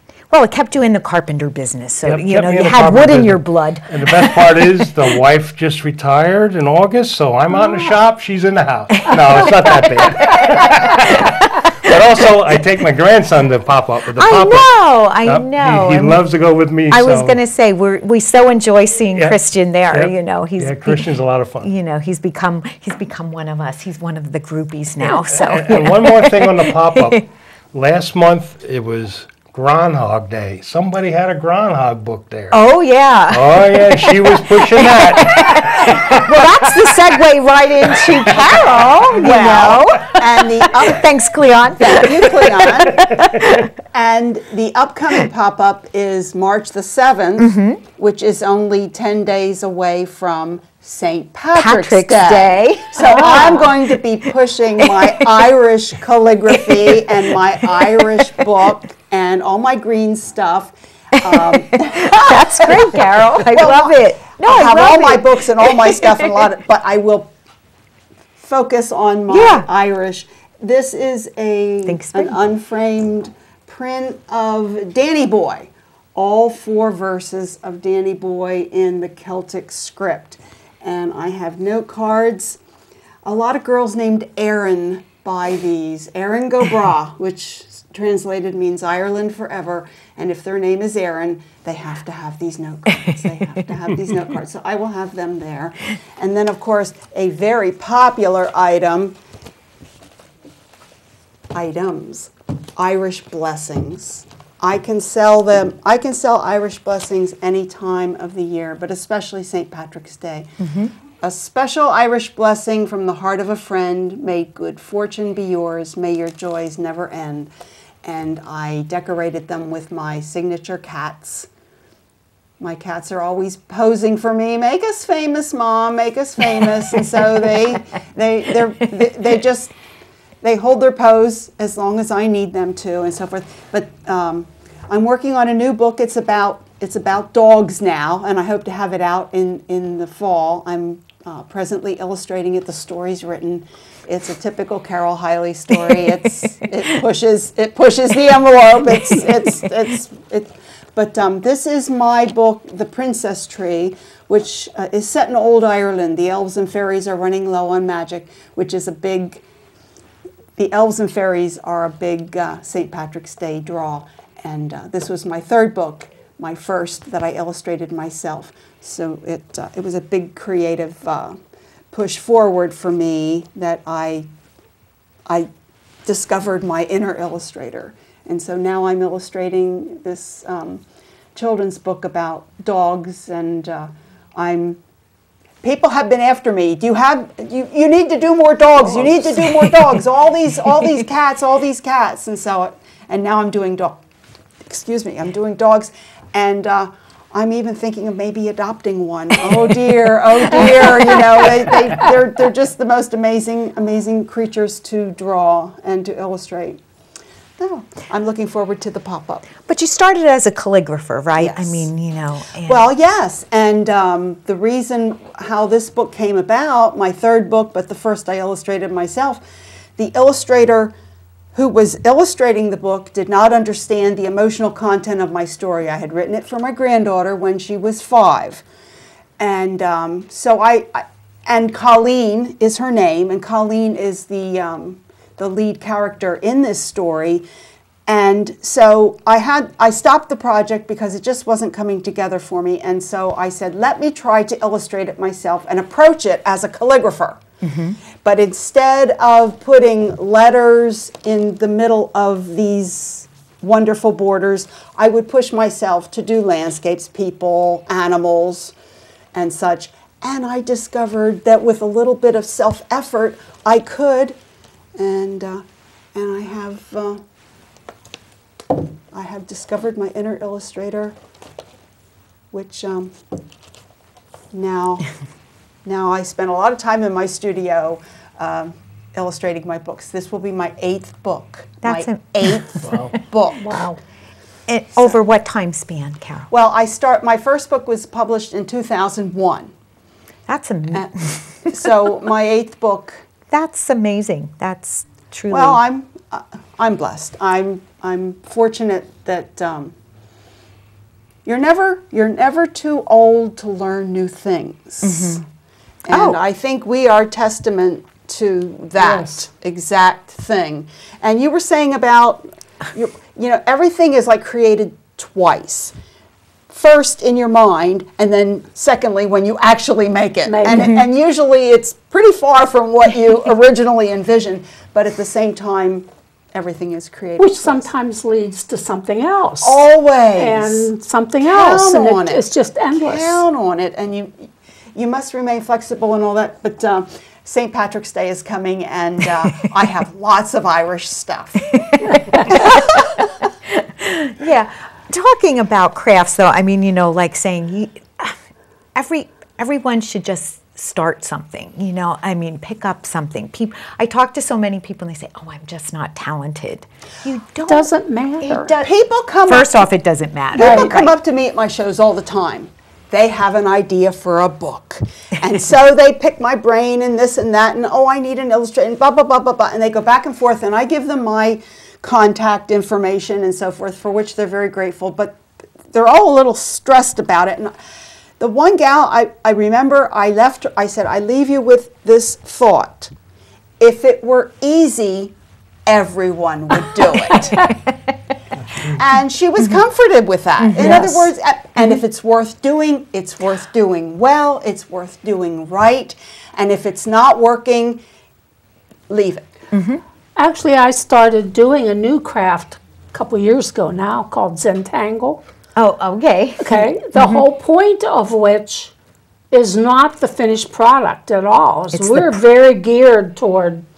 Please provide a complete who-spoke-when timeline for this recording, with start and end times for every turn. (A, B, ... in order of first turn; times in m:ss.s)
0:00.3-0:04.9 A
0:02.0-0:14.7 B
0:07.5-0:07.9 A
0:09.0-0:11.9 A
0:14.2-0:16.2 A
0:15.2-0:17.4 B
0:16.9-0:21.1 A
0:19.9-0:21.7 B
0:21.6-0:27.2 A
0:25.0-0:32.6 B
0:32.5-0:43.7 A
0:33.3-0:36.9 B
0:38.0-0:38.4 B
0:39.1-0:41.1 C
0:41.7-0:43.1 C
0:43.9-1:07.3 C
0:47.4-0:47.8 A
0:51.5-0:54.3 A
0:54.8-0:55.5 A
0:56.5-0:57.1 A
0:57.6-0:58.4 A
1:01.2-1:06.4 A
1:08.4-1:22.6 C
1:09.3-1:09.7 A
1:11.8-1:12.4 A
1:23.2-1:39.2 C
1:41.5-1:50.5 C
1:50.6-1:50.9 A
1:51.2-1:57.5 C
1:58.0-2:01.5 C
2:02.6-2:09.7 C
2:10.4-2:39.4 C
2:25.7-2:26.0 A
2:28.8-2:29.7 A
2:40.6-2:51.4 C
2:51.9-2:54.3 C
2:56.0-3:00.8 C
3:01.3-3:04.8 C
3:05.6-3:14.0 C
3:08.8-3:10.0 A
3:10.6-3:10.9 A
3:14.6-3:26.8 C
3:19.3-3:19.8 A
3:20.4-3:21.4 A
3:27.6-3:29.5 C
3:29.6-3:32.9 A
3:31.4-3:31.9 C
3:32.6-3:39.4 C
3:40.0-3:40.9 C
3:41.5-3:48.6 C
3:49.4-3:57.4 C
3:58.1-4:07.4 C
4:07.6-4:08.0 A
4:08.2-4:18.7 C
4:19.3-4:24.4 C
4:25.0-4:27.2 C
4:29.1-4:31.2 C
4:32.5-4:33.1 C
4:34.5-4:35.1 C
4:35.8-4:43.6 C
4:41.8-4:43.0 A
4:42.8-4:43.1 B
4:43.5-4:44.0 D
4:44.7-4:46.5 A
4:46.5-4:49.7 C
4:50.5-4:51.9 A
4:51.6-4:53.3 C
4:53.5-4:55.8 A
4:55.5-4:59.9 C
5:01.4-5:05.4 C
5:05.0-5:05.4 A
5:06.0-5:15.9 C
5:06.1-5:06.4 A
5:09.0-5:09.5 D
5:16.7-5:27.9 C
5:20.4-5:20.9 D
5:20.6-5:21.0 A
5:27.4-5:29.8 D
5:29.6-5:30.9 C
5:30.4-5:33.4 D
5:31.4-5:43.3 C
5:41.7-5:43.0 A
5:43.7-5:48.4 A
5:48.9-5:57.9 A
5:57.6-5:58.7 D
5:58.4-5:58.9 A
5:58.8-5:59.8 C
5:59.4-6:01.1 A
6:00.5-6:17.7 C
6:00.6-6:01.0 D
6:18.4-6:23.1 C
6:23.8-6:25.3 C
6:25.8-6:27.7 C
6:28.8-6:38.0 C
6:30.6-6:32.0 A
6:30.8-6:31.2 D
6:39.1-6:39.4 C
6:39.7-6:40.0 A
6:40.4-6:45.4 D
6:45.8-6:47.4 A
6:46.6-6:48.9 D
6:49.5-6:53.8 D
6:51.9-6:52.4 A